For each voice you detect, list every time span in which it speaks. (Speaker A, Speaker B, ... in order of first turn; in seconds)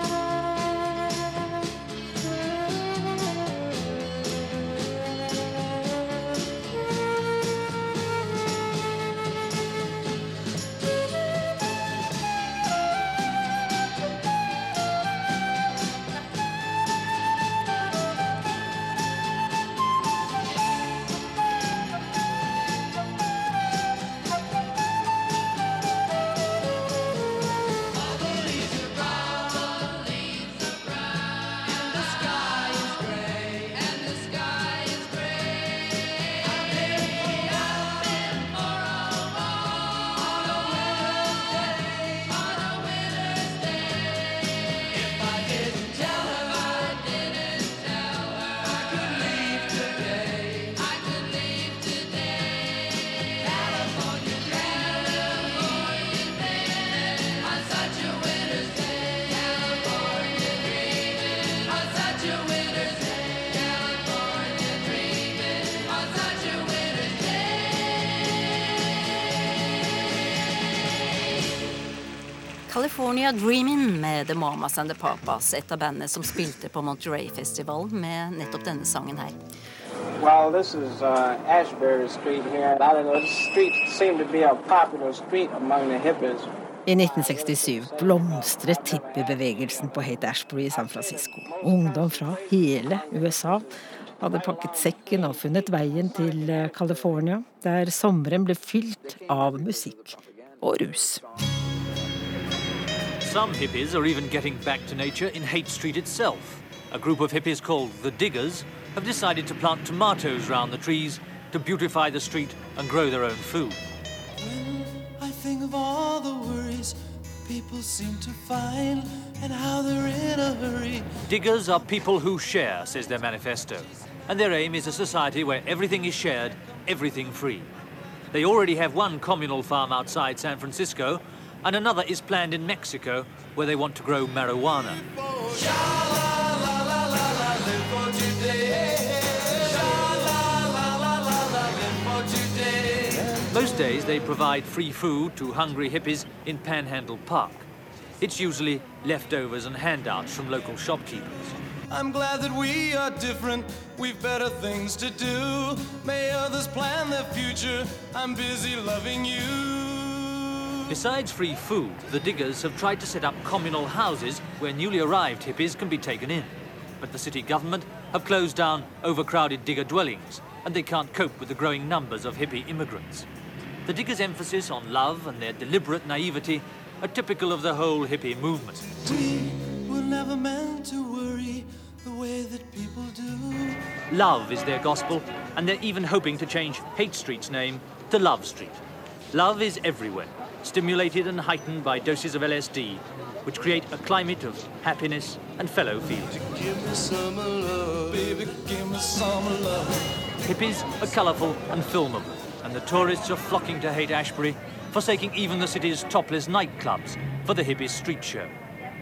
Speaker A: 32.7-33.0, 45.4-46.5, 49.1-50.7, 114.4-121.1, 137.6-138.7, 139.7-140.2, 141.6-143.3, 151.9-160.3, 179.1-183.8
Speaker B: 72.7-79.3
Speaker C: 80.2-86.5
Speaker D: 86.8-93.7, 94.2-101.2
Speaker E: 103.2-113.8, 121.2-127.7, 128.3-135.0, 143.4-147.7, 148.2-151.6, 160.9-173.3, 173.8-179.0, 184.1-188.8, 189.3-196.4, 200.4-208.5